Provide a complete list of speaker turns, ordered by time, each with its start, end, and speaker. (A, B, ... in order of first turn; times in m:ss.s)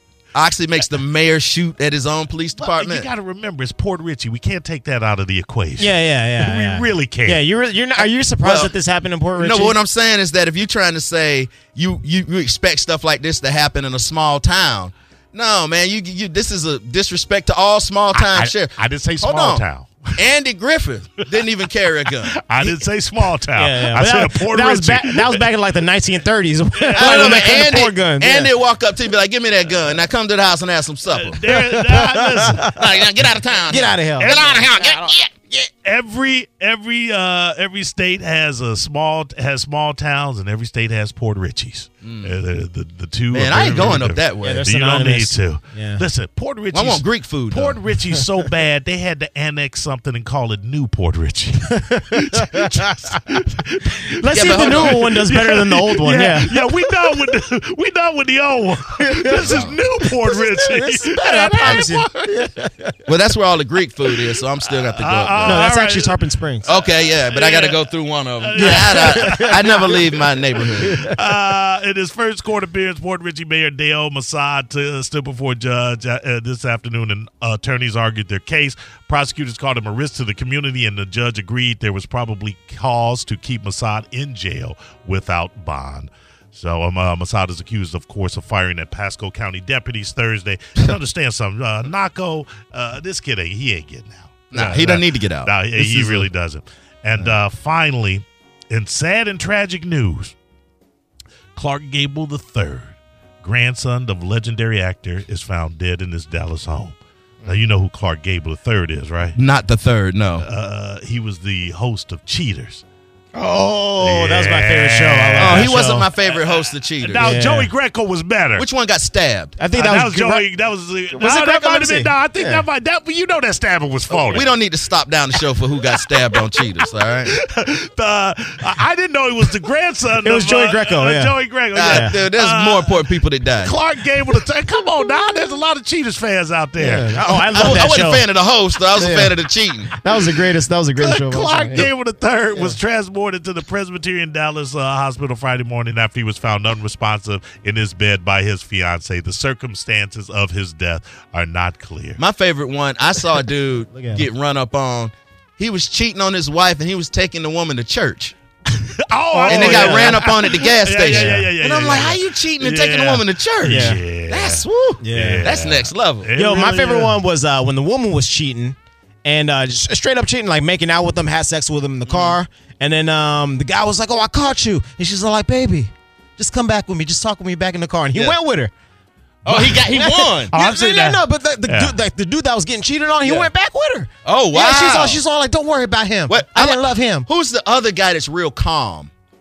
0:00.3-0:03.1 A
0:02.6-0:07.4 B
0:05.8-0:09.8 C
0:08.0-0:08.7 A
0:09.4-0:19.6 A
0:18.1-0:20.2 B
0:20.2-0:22.4 A
0:22.4-0:25.4 B
0:23.5-0:28.5 C
0:26.8-0:27.8 B
0:27.0-0:31.4 A
0:31.1-0:32.7 B
0:31.5-0:32.9 C
0:32.6-0:35.3 A
0:33.7-0:35.2 C
0:34.2-0:34.7 B
0:35.5-1:02.3 B
0:42.0-0:42.4 A
0:43.3-0:44.7 A
0:44.4-0:46.0 C
0:46.7-0:47.8 A
0:52.3-0:52.9 C
0:54.2-0:57.3 C
0:54.3-0:55.1 A
0:59.0-0:59.5 C
0:59.4-0:59.8 A
1:00.1-1:03.0 C
1:01.6-1:01.9 A
1:03.1-1:05.7 A
1:05.0-1:06.8 B
1:05.4-1:06.7 C
1:06.6-1:11.0 A
1:07.3-1:07.9 B
1:08.4-1:10.1 B
1:08.6-1:10.0 C
1:10.8-1:40.4 B
1:10.8-1:11.2 C
1:34.5-1:36.3 A
1:41.6-1:49.4 B
1:49.4-1:50.5 A
1:50.4-1:52.8 B
1:53.3-1:56.0 C
1:54.0-1:58.7 B
1:55.4-1:57.4 A
1:57.2-1:57.7 C
1:58.6-1:59.6 A
1:59.6-2:00.5 C
1:59.8-2:04.5 B
2:01.1-2:02.7 C
2:04.1-2:07.4 A
2:07.3-2:13.0 B
2:10.2-2:12.2 C
2:11.7-2:13.8 A
2:13.6-2:17.6 B
2:16.8-2:18.3 C
2:17.3-2:19.9 A
2:19.0-2:19.4 C
2:19.9-2:21.9 C
2:21.0-2:32.2 B
2:32.2-2:38.4 A
2:33.9-2:34.3 C
2:38.8-2:47.2 B
2:39.3-2:40.4 C
2:39.5-2:46.3 A
2:41.0-2:42.0 C
2:43.6-2:44.0 C
2:45.0-2:45.5 C
2:46.4-2:58.7 C
2:52.1-2:52.4 A
2:59.4-3:00.5 A
2:59.5-3:07.3 C
3:00.5-3:02.0 B
3:03.2-3:03.5 A
3:04.2-3:05.2 A
3:06.3-3:09.1 A